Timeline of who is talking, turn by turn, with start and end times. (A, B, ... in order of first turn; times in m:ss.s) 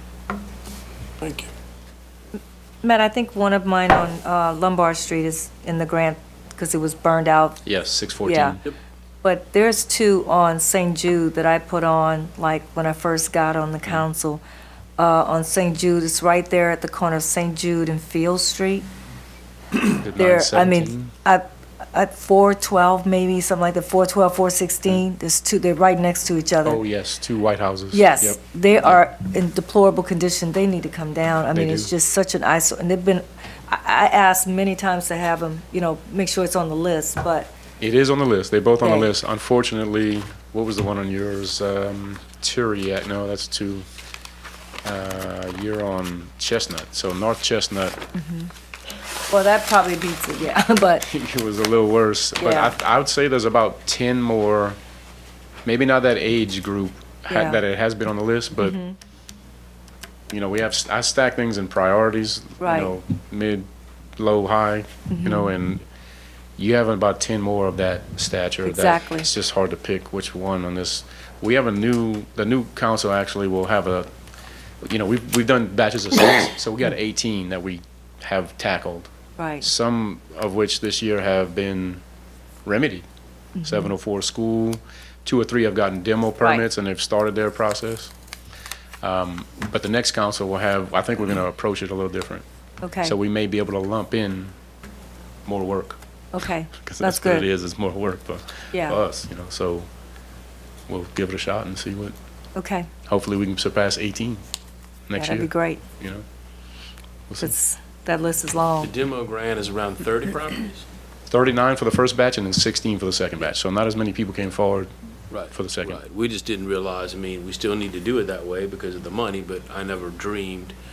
0:01.2-0:01.5 A
0:02.8-0:07.6 B
0:07.6-0:08.6 C
0:08.2-0:08.6 B
0:09.2-0:14.4 B
0:15.0-0:18.9 B
0:19.7-0:26.8 B
0:20.0-0:21.1 C
0:26.6-0:29.0 C
0:27.9-0:37.5 B
0:31.5-0:31.9 C
0:37.8-0:43.8 C
0:38.8-0:39.1 B
0:44.8-0:48.0 C
0:48.2-0:48.5 B
0:49.3-0:51.0 B
0:51.1-0:54.8 C
0:52.4-0:52.7 B
0:55.6-0:58.8 C
0:57.3-0:57.6 B
0:58.6-0:59.0 B
1:00.3-1:03.6 C
1:02.6-1:02.9 B
1:04.2-1:05.8 C
1:05.1-1:05.5 B
1:06.6-1:14.1 C
1:08.6-1:09.3 B
1:14.8-1:19.1 C
1:19.4-1:19.7 B
1:19.6-1:22.0 C
1:22.6-1:23.0 C
1:23.6-1:23.9 B
1:23.6-1:28.1 C
1:29.0-1:32.4 C
1:32.8-1:33.1 B
1:33.0-1:34.5 C
1:35.4-1:36.0 C
1:36.3-1:37.5 B
1:36.8-1:39.9 C
1:38.7-1:39.0 B
1:40.9-1:42.1 C
1:42.5-1:42.9 B
1:43.1-1:44.4 C
1:45.1-1:46.2 C
1:45.2-1:45.8 B
1:47.4-1:48.9 B
1:48.8-1:50.8 A
1:51.3-1:54.9 C
1:55.3-2:00.7 A
1:55.5-1:56.0 C